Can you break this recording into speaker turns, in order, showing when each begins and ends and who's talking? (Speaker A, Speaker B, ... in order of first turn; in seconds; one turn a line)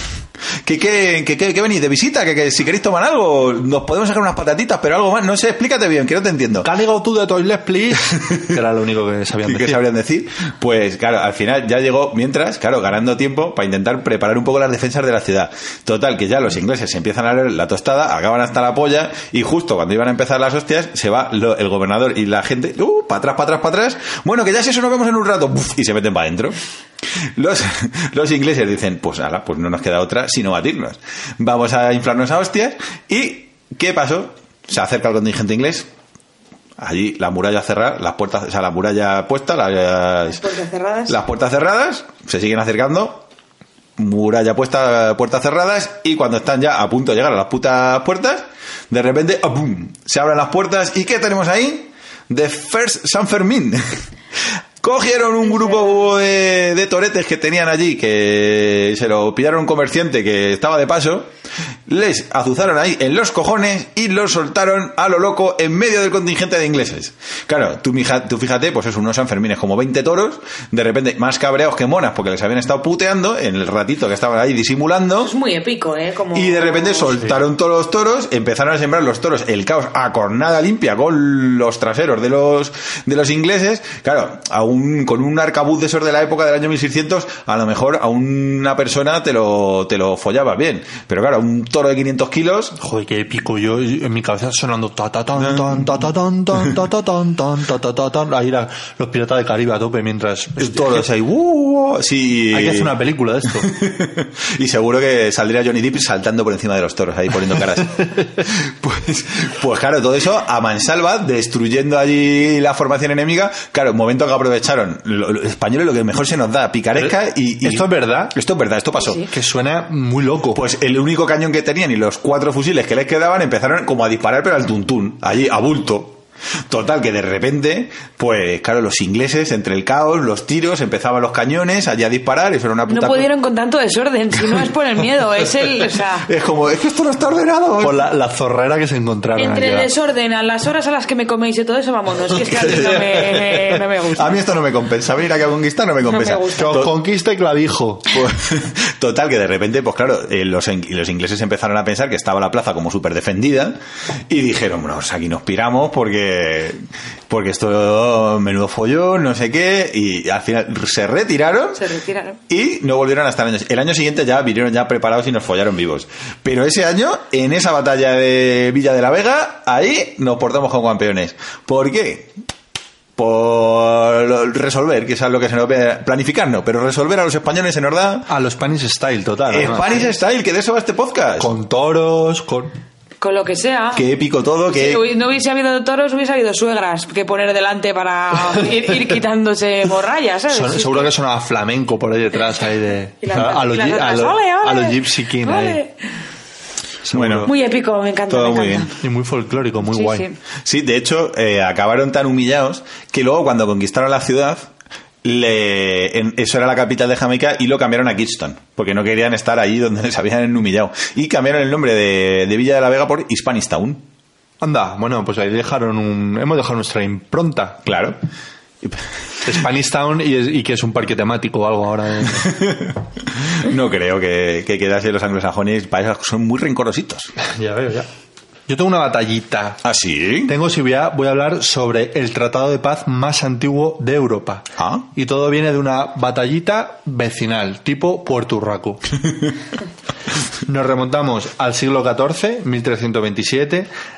Speaker A: 0.7-6.7
Speaker B: 6.6-9.8
Speaker A: 9.4-26.6
Speaker A: 27.4-35.9
Speaker A: 36.8-40.4
Speaker C: 40.3-41.2
Speaker A: 41.1-43.2
Speaker A: 44.0-54.0
Speaker A: 54.8-61.3
Speaker C: 55.5-55.9
Speaker A: 61.9-75.3
Speaker C: 75.2-77.3
Speaker A: 76.3-92.8
Speaker B: 92.8-101.1
Speaker A: 95.4-95.8
Speaker A: 100.6-103.0
Speaker B: 102.5-103.7
Speaker A: 103.5-119.3
Speaker B: 117.0-118.3
Speaker B: 119.3-120.6
Speaker A: 120.5-133.3
Speaker C: 132.9-136.3
Speaker A: 136.2-138.1
Speaker B: 137.8-139.9
Speaker C: 139.4-144.4
Speaker A: 142.5-146.9
Speaker C: 146.1-146.8
Speaker B: 146.6-148.1
Speaker A: 148.1-161.8
Speaker C: 161.8-162.4
Speaker A: 162.5-172.3
Speaker A: 173.2-178.3
Speaker B: 178.3-179.9
Speaker A: 179.5-181.5
Speaker B: 181.4-182.7
Speaker C: 183.2-184.1
Speaker A: 183.9-185.0
Speaker C: 184.7-191.1
Speaker B: 190.5-195.8
Speaker C: 193.2-195.9
Speaker B: 197.1-197.5
Speaker A: 197.1-197.5
Speaker C: 197.4-199.0
Speaker A: 198.3-198.9
Speaker B: 199.0-200.3
Speaker C: 199.8-200.4
Speaker A: 200.7-204.7
Speaker A: 205.2-214.0
Speaker B: 214.6-217.8
Speaker A: 217.8-218.2
Speaker B: 219.4-222.6
Speaker A: 222.5-222.9
Speaker A: 223.6-227.3
Speaker B: 227.4-228.1
Speaker B: 228.7-229.8
Speaker A: 229.8-230.5
Speaker B: 230.4-239.1
Speaker A: 234.8-235.0
Speaker B: 240.7-243.9